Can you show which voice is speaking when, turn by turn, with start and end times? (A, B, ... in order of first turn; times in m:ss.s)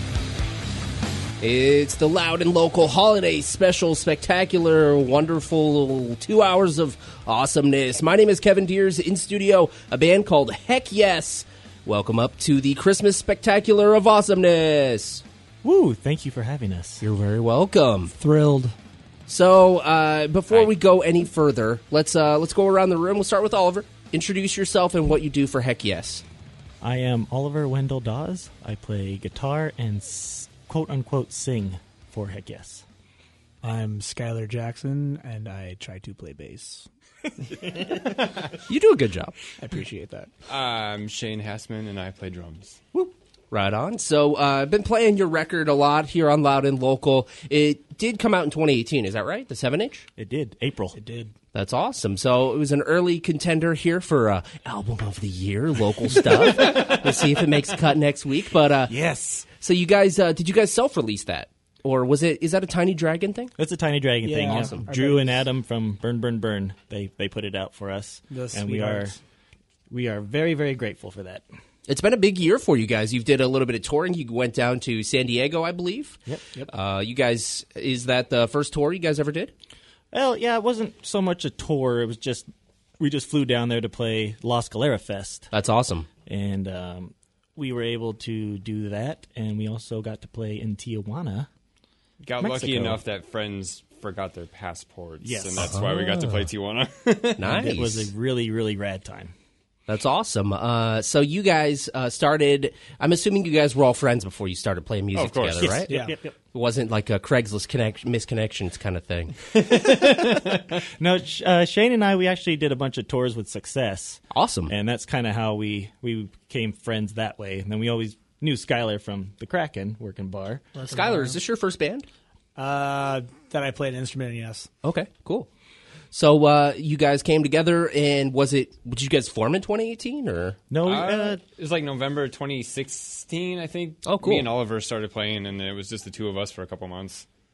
0:01.4-0:15.2 A
0:15.6-0:17.0 B
0:17.0-0:18.1 A
0:18.1-0:18.7 C
0:19.3-0:26.2 A
0:26.8-0:32.8 B
0:33.6-0:36.9 C
0:38.7-0:39.4 A
0:39.6-0:40.3 C
0:40.5-0:42.8 D
0:43.5-0:50.1 A
0:50.2-0:51.0 B
0:51.0-0:51.3 C
0:51.5-0:58.9 A
0:56.6-0:57.0 D
0:58.9-0:59.5 B
0:59.5-1:03.5 A
1:03.6-1:09.1 B
1:04.2-1:05.5 C
1:04.4-1:04.8 A
1:08.3-1:09.2 C
1:09.9-1:11.4 B
1:11.9-1:19.5 A
1:20.1-1:22.5 B
1:23.0-1:25.5 B
1:25.5-1:26.1 A
1:26.2-1:31.5 B
1:32.2-1:37.6 D
1:32.4-1:33.0 B
1:35.2-1:36.5 B
1:35.6-1:35.8 A
1:37.4-1:38.1 A
1:37.4-1:39.3 B
1:39.9-1:45.9 A
1:45.1-1:45.8 D
1:45.6-1:46.3 B
1:45.9-1:46.2 C
1:46.5-1:49.4 A
1:49.6-1:50.6 D
1:49.8-2:00.7 B
1:54.3-1:54.7 A
2:00.7-2:01.4 C
2:00.9-2:02.1 A
2:02.6-2:04.7 C
2:04.8-2:05.5 A
2:06.1-2:10.6 A
2:10.7-2:11.4 B
2:10.8-2:17.2 D
2:14.0-2:14.5 A